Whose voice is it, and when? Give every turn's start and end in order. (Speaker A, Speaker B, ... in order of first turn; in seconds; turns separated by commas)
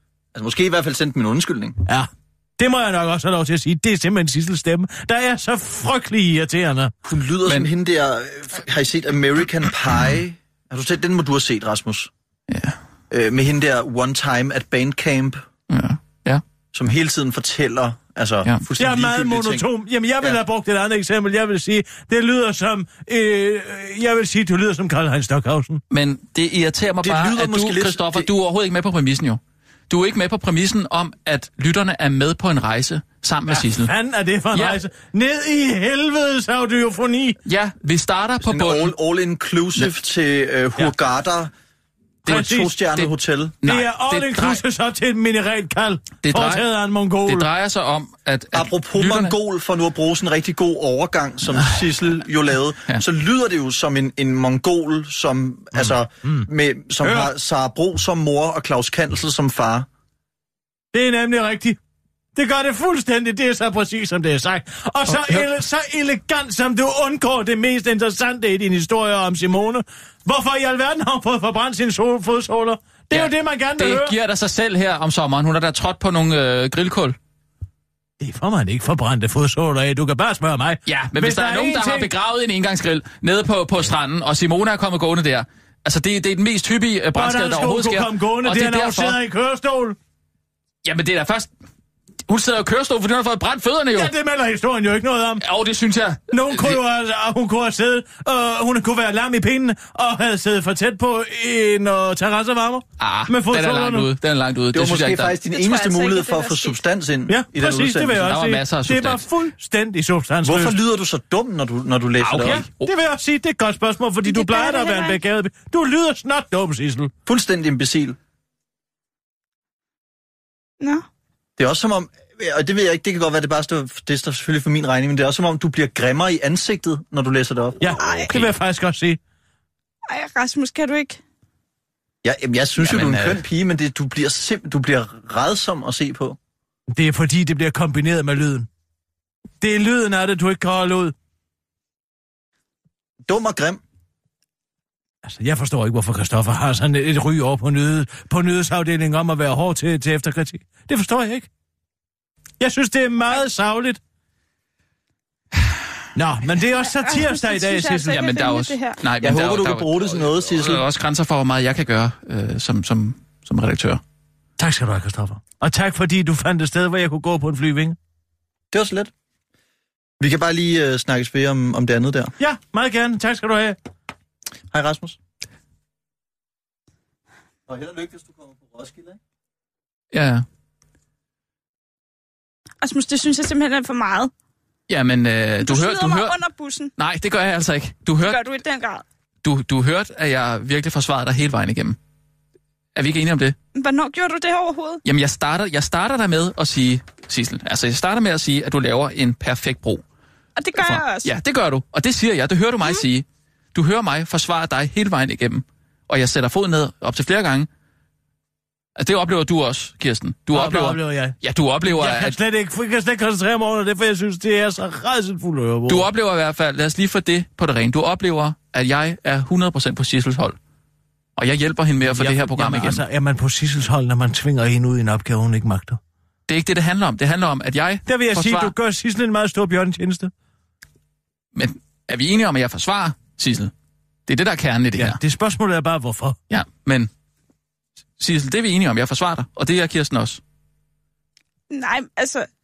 Speaker A: 0.3-1.8, Speaker B: 1.9-6.9, Speaker A: 7.1-12.1, Speaker C: 7.5-7.7, Speaker C: 12.5-12.8, Speaker A: 13.1-15.4, Speaker C: 15.7-16.4, Speaker A: 16.7-19.6, Speaker B: 18.8-25.8, Speaker C: 25.9-33.9, Speaker A: 27.0-28.3, Speaker B: 33.5-37.4, Speaker C: 34.5-34.8, Speaker C: 37.5-38.9, Speaker A: 38.4-41.5, Speaker B: 42.2-42.7, Speaker C: 42.2-44.6, Speaker A: 42.3-43.6, Speaker B: 43.6-47.5, Speaker C: 46.2-46.7, Speaker C: 47.2-49.4, Speaker A: 48.5-59.9, Speaker B: 57.0-57.3, Speaker B: 60.9-61.8, Speaker B: 62.4-74.1, Speaker C: 65.1-65.5, Speaker C: 73.1-77.2, Speaker B: 78.2-82.1, Speaker C: 80.9-89.2, Speaker B: 87.1-90.0, Speaker C: 90.8-91.5, Speaker C: 92.3-94.1, Speaker B: 93.9-95.4, Speaker C: 95.4-96.8, Speaker B: 96.3-104.1, Speaker C: 103.0-105.4, Speaker A: 104.7-108.3, Speaker D: 105.5-106.8, Speaker B: 107.3-110.8, Speaker C: 108.1-109.2, Speaker A: 110.4-112.6, Speaker C: 112.2-112.9, Speaker B: 112.4-117.1, Speaker D: 114.2-115.2, Speaker A: 117.2-118.2, Speaker D: 120.8-121.0, Speaker A: 121.6-127.9, Speaker B: 127.8-129.2, Speaker D: 127.9-128.3, Speaker C: 128.0-128.6, Speaker D: 130.1-131.2, Speaker A: 132.2-136.4, Speaker C: 132.8-133.4, Speaker B: 136.9-138.7, Speaker B: 139.6-141.1, Speaker A: 143.3-143.8, Speaker B: 145.2-151.5, Speaker B: 152.6-154.0, Speaker B: 156.1-158.2, Speaker D: 156.8-159.0, Speaker C: 158.0-164.0, Speaker A: 159.2-160.8, Speaker B: 164.6-167.9, Speaker A: 168.7-169.1, Speaker A: 170.2-172.3, Speaker B: 172.4-173.8, Speaker A: 174.7-175.2, Speaker A: 177.7-179.2, Speaker C: 180.1-180.4, Speaker D: 182.8-184.3, Speaker C: 184.9-186.4, Speaker D: 185.6-186.9, Speaker C: 187.0-188.4, Speaker D: 188.2-189.0, Speaker C: 189.4-192.0, Speaker C: 192.9-193.6, Speaker D: 193.7-195.0, Speaker C: 195.0-200.0, Speaker D: 200.6-201.3, Speaker C: 200.8-207.7, Speaker C: 208.9-212.4, Speaker B: 210.5-216.1, Speaker C: 215.9-220.6, Speaker C: 221.3-223.0, Speaker B: 222.1-226.0, Speaker C: 226.5-228.7, Speaker B: 228.1-230.3, Speaker C: 231.5-233.7, Speaker C: 234.3-235.2, Speaker B: 234.9-236.4, Speaker C: 236.5-237.1, Speaker C: 238.2-240.4, Speaker D: 241.7-242.5